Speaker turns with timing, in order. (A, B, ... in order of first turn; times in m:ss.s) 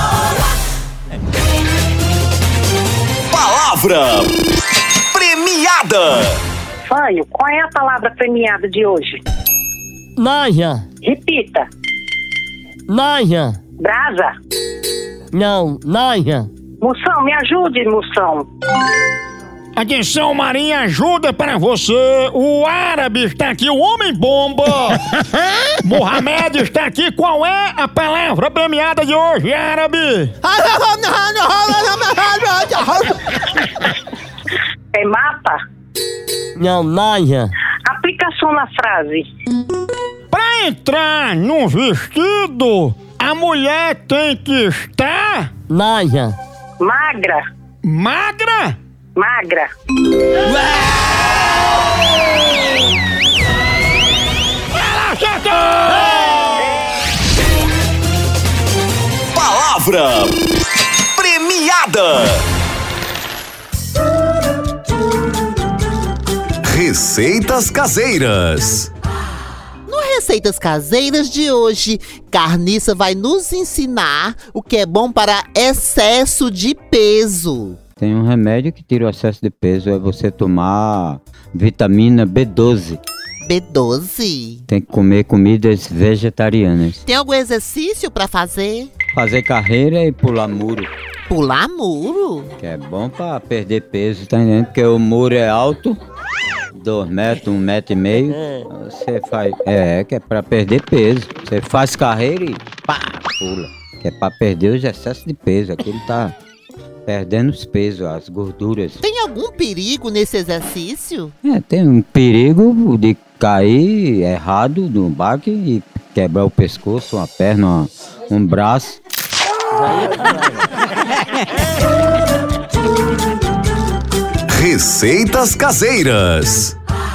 0:03.3-0:04.3 A
0:05.1-0:06.4 A
0:06.9-0:09.2 B
0:10.2-0:10.9 C
0:11.0-0:11.7 B
0:12.9-0:13.6 C
0:13.8-0:14.3 B
0:15.3-0:16.5 C
0:16.8-0:18.5 B
0:19.8-0:25.2 D
0:25.8-0:30.3 D
0:30.4-0:33.5 E
0:34.9-0:35.6 B
0:36.6-0:37.5 C
0:37.8-0:39.3 B
0:40.3-0:45.5 D
0:45.7-0:46.4 C
0:46.8-0:47.4 B
0:47.8-0:48.8 D
0:49.2-0:49.7 B
0:54.7-0:56.6 D
0:59.3-1:00.4 A
1:01.2-1:02.4 A
1:06.7-1:08.9 A
1:09.9-1:17.8 E
1:18.0-1:23.0 F
1:23.4-1:24.6 E
1:24.7-1:27.0 F
1:27.0-1:28.9 E
1:29.1-1:30.9 F
1:31.3-1:32.5 E
1:32.6-1:36.0 F
1:36.7-1:46.4 F
1:38.3-1:38.6 C
1:47.1-1:49.0 F
1:49.0-1:51.3 E
1:51.4-1:59.0 F
1:59.7-2:00.7 C
2:04.5-2:06.8 A